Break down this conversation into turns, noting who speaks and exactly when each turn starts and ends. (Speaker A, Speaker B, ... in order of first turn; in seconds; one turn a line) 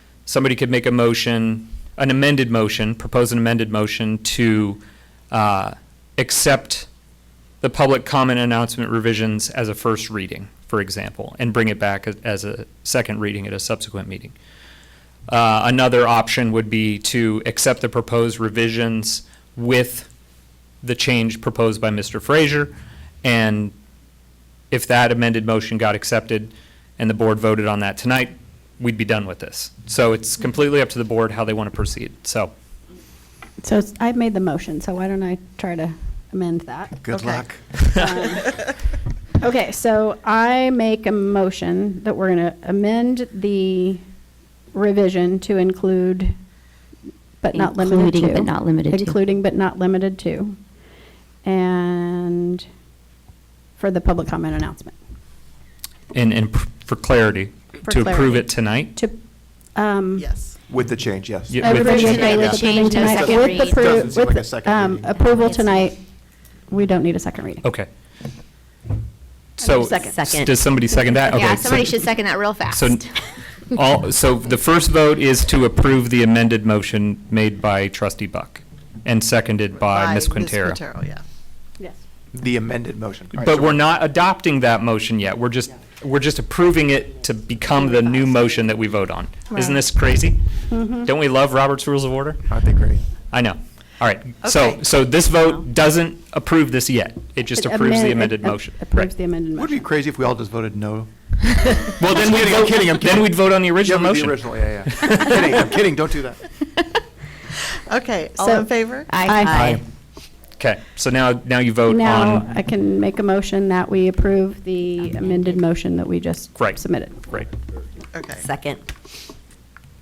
Speaker A: 0.3-6.9
Speaker A: 7.6-14.3
Speaker A: 15.3-20.1
Speaker A: 20.8-23.7
Speaker A: 24.7-32.5
Speaker B: 33.6-37.1
Speaker C: 37.0-37.7
Speaker D: 37.1-37.5
Speaker B: 37.9-38.7
Speaker B: 39.4-44.0
Speaker B: 44.7-46.3
Speaker B: 47.4-50.6
Speaker E: 47.5-49.2
Speaker B: 51.4-52.7
Speaker B: 53.8-55.0
Speaker A: 56.1-59.0
Speaker B: 57.9-59.2
Speaker B: 59.8-60.3
Speaker D: 60.2-60.6
Speaker C: 60.7-65.3
Speaker A: 61.5-62.3
Speaker B: 61.6-66.0
Speaker F: 61.8-64.0
Speaker E: 65.4-65.9
Speaker B: 66.7-67.7
Speaker A: 67.6-67.9
Speaker B: 69.6-70.3
Speaker A: 69.6-72.0
Speaker E: 70.0-70.7
Speaker F: 71.3-73.0
Speaker A: 72.7-73.1
Speaker A: 73.7-80.8
Speaker D: 79.8-81.2
Speaker C: 82.3-83.8
Speaker A: 83.4-90.4
Speaker B: 89.5-89.8
Speaker B: 90.7-91.1
Speaker A: 91.0-92.4
Speaker C: 92.5-93.1
Speaker A: 93.3-99.1
Speaker D: 94.4-94.8
Speaker B: 97.5-99.8
Speaker C: 99.6-101.1
Speaker A: 101.8-105.5
Speaker C: 102.0-106.5
Speaker D: 107.9-109.2
Speaker B: 108.4-109.7
Speaker F: 109.1-109.8
Speaker E: 109.2-109.8
Speaker A: 109.5-109.8
Speaker A: 110.6-112.5
Speaker B: 111.8-117.3
Speaker A: 116.6-117.5
Speaker D: 118.1-118.5
Speaker E: 118.4-118.8